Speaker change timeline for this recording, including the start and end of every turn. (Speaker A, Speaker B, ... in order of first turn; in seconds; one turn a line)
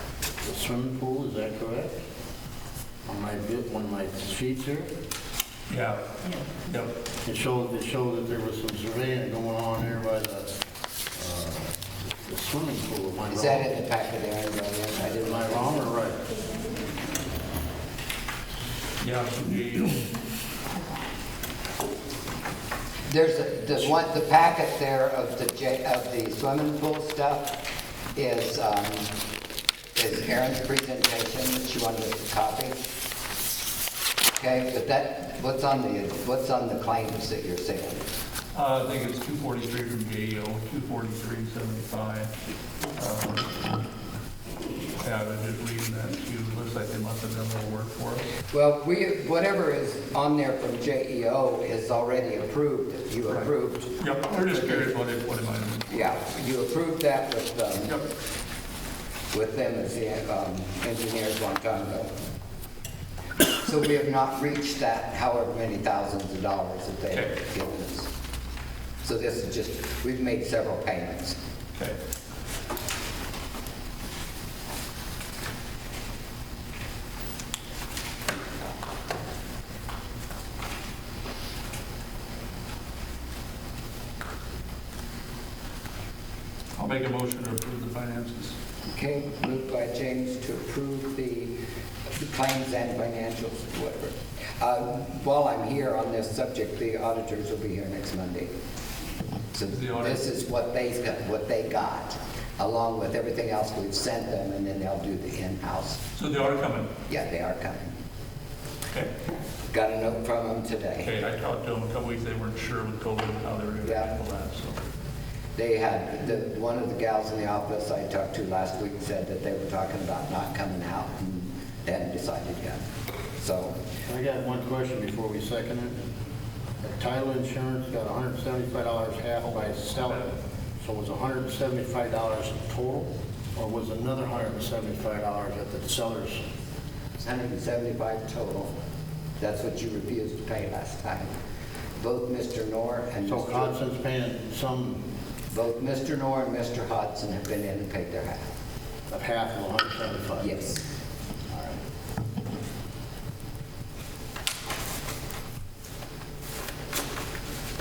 Speaker A: 0.4-2.0
Speaker A: 3.0-4.9
Speaker B: 5.7-6.9
Speaker A: 7.2-10.5
Speaker A: 11.1-13.7
Speaker C: 13.3-15.9
Speaker A: 15.0-16.3
Speaker B: 19.0-20.1
Speaker C: 23.1-27.6
Speaker C: 28.1-29.1
Speaker C: 29.9-32.8
Speaker C: 34.4-38.0
Speaker B: 38.5-42.3
Speaker B: 42.9-43.5
Speaker B: 45.0-48.3
Speaker C: 48.5-53.9
Speaker B: 54.0-55.9
Speaker C: 54.5-54.8
Speaker C: 55.9-58.0
Speaker C: 59.3-62.1
Speaker C: 63.5-68.1
Speaker C: 69.0-71.4
Speaker B: 86.8-88.5
Speaker C: 88.9-91.5
Speaker C: 92.1-98.5
Speaker C: 99.5-106.0
Speaker B: 99.7-100.2
Speaker B: 106.2-106.9
Speaker C: 107.1-107.9
Speaker C: 109.7-111.1
Speaker B: 111.0-114.8
Speaker C: 113.8-114.1
Speaker C: 115.5-122.8
Speaker C: 123.4-123.7
Speaker A: 124.1-126.0
Speaker A: 126.8-136.5
Speaker B: 129.4-130.3
Speaker C: 137.2-138.7
Speaker C: 139.4-141.3
Speaker C: 142.0-143.8
Speaker A: 143.2-145.0
Speaker C: 145.5-148.5
Speaker A: 149.1-150.5
Speaker C: 150.4-150.8
Speaker A: 151.5-151.8